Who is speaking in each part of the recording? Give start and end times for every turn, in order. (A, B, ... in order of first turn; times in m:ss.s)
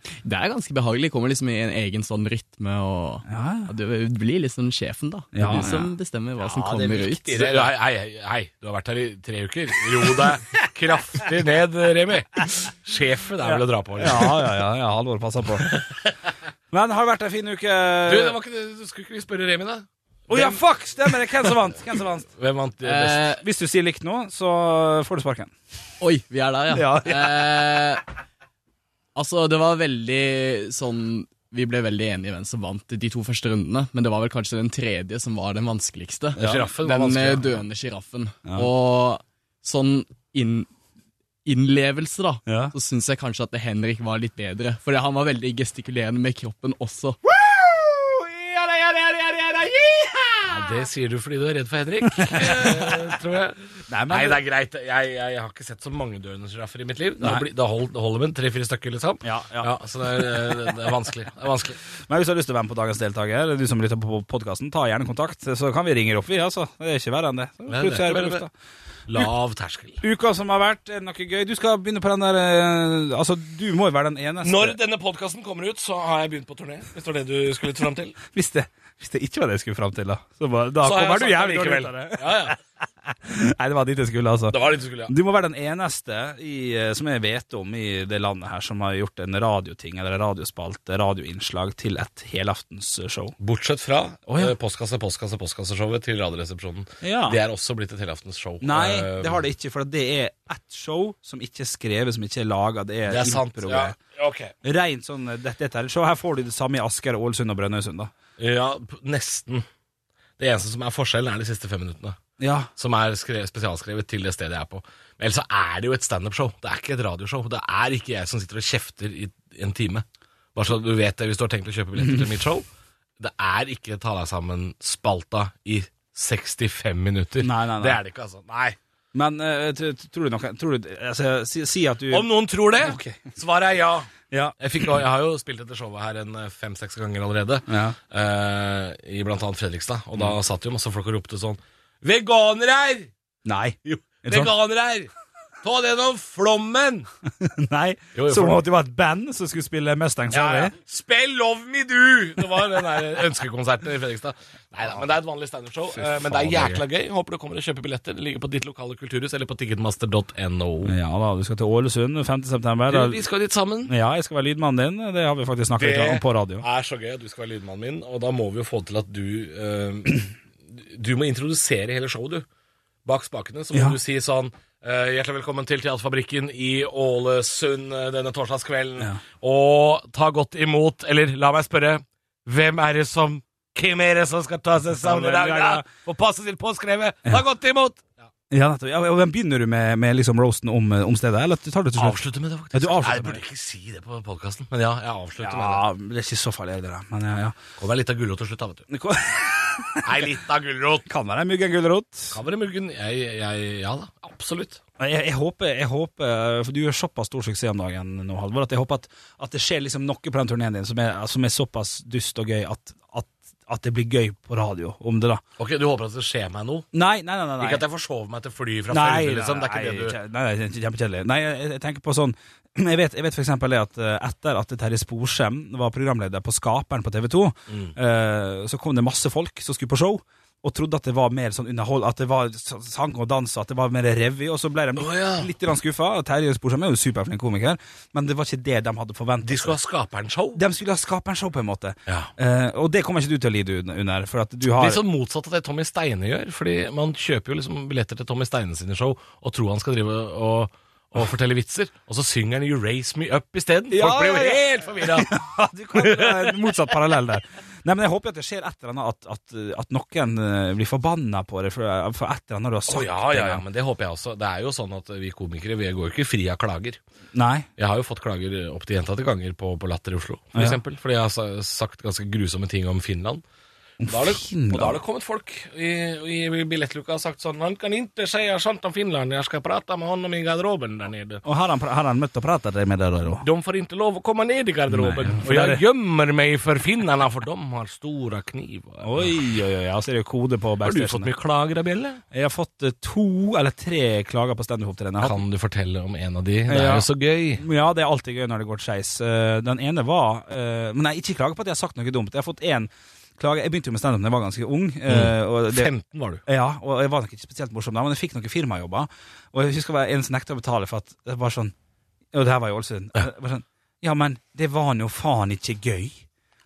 0:00.2-0:07.6 A
0:03.3-0:03.7 B
0:05.3-0:05.9 B
0:06.4-0:14.5 C
0:13.4-0:15.8 B
0:15.6-0:16.3 C
0:16.7-0:18.4 B
0:18.0-0:21.8 C
0:20.3-0:22.3 B
0:22.3-0:23.4 C
0:22.8-0:23.4 A
0:23.4-0:25.5 B
0:26.0-0:28.0 A
0:26.7-0:27.6 B
0:29.1-0:40.7 A
0:36.4-0:37.6 C
0:36.4-0:36.7 B
0:41.4-0:47.2 A
0:42.5-0:42.7 B
0:47.2-0:50.7 B
0:50.5-1:01.8 C
0:52.1-0:53.1 B
0:53.9-0:54.4 B
0:57.2-0:57.5 B
0:59.2-1:00.9 B
1:02.1-1:08.5 B
1:07.7-1:08.5 C
1:09.1-1:10.0 C
1:10.0-1:14.8 B
1:14.4-1:18.2 C
1:18.3-1:33.4 B
1:20.8-1:22.6 C
1:24.5-1:25.1 C
1:33.4-1:39.4 C
1:34.3-1:34.6 B
1:37.0-1:37.4 B
1:38.6-1:44.0 B
1:43.1-1:44.5 C
1:44.6-1:48.1 B
1:48.4-1:49.6 C
1:50.4-1:52.2 C
1:52.4-1:52.7 B
1:52.8-2:02.7 C
2:02.0-2:02.3 B
2:03.2-2:08.8 C
2:07.4-2:08.0 B
2:09.1-2:12.3 B
2:12.1-2:23.1 C
2:12.8-2:13.3 B
2:14.3-2:14.6 B
2:17.7-2:18.0 B
2:23.4-2:24.5 B
2:23.8-2:25.1 C
2:25.6-2:27.1 C
2:27.4-2:30.7 B
2:28.1-2:28.6 C
2:30.3-2:40.9 C
2:35.9-2:36.8 B
2:40.8-2:43.2 B
2:42.9-2:43.9 C
2:43.9-2:46.6 B
2:45.8-2:52.5 C
2:53.0-3:08.3 C
3:04.9-3:05.8 B
3:08.5-3:12.2 B
3:12.0-3:15.8 C
3:12.7-3:13.4 B
3:15.4-3:17.6 B
3:17.8-3:18.9 C
3:18.9-3:20.2 B
3:20.0-3:21.1 C
3:21.1-3:22.4 B
3:22.3-3:24.8 C
3:25.0-3:35.4 B
3:35.6-3:36.9 C
3:36.9-3:37.8 B
3:37.6-3:40.2 C
3:38.9-3:59.8 B
3:47.7-3:48.0 C
3:55.0-3:55.5 C
3:59.4-4:00.6 C
4:00.6-4:05.0 B
4:04.6-4:15.4 C
4:13.9-4:23.6 B
4:15.9-4:16.7 C
4:22.9-4:27.0 C
4:27.3-4:27.7 B
4:27.8-4:33.4 C
4:34.0-4:35.0 B
4:34.1-4:41.4 C
4:41.4-4:43.4 B
4:43.4-4:49.4 C
4:44.9-4:45.8 B
4:49.0-4:51.3 B
4:50.8-4:52.2 C
4:52.3-4:55.4 B
4:55.2-4:57.6 C
4:56.7-5:05.9 B
5:05.1-5:06.4 C
5:06.5-5:11.7 B
5:12.3-5:16.2 B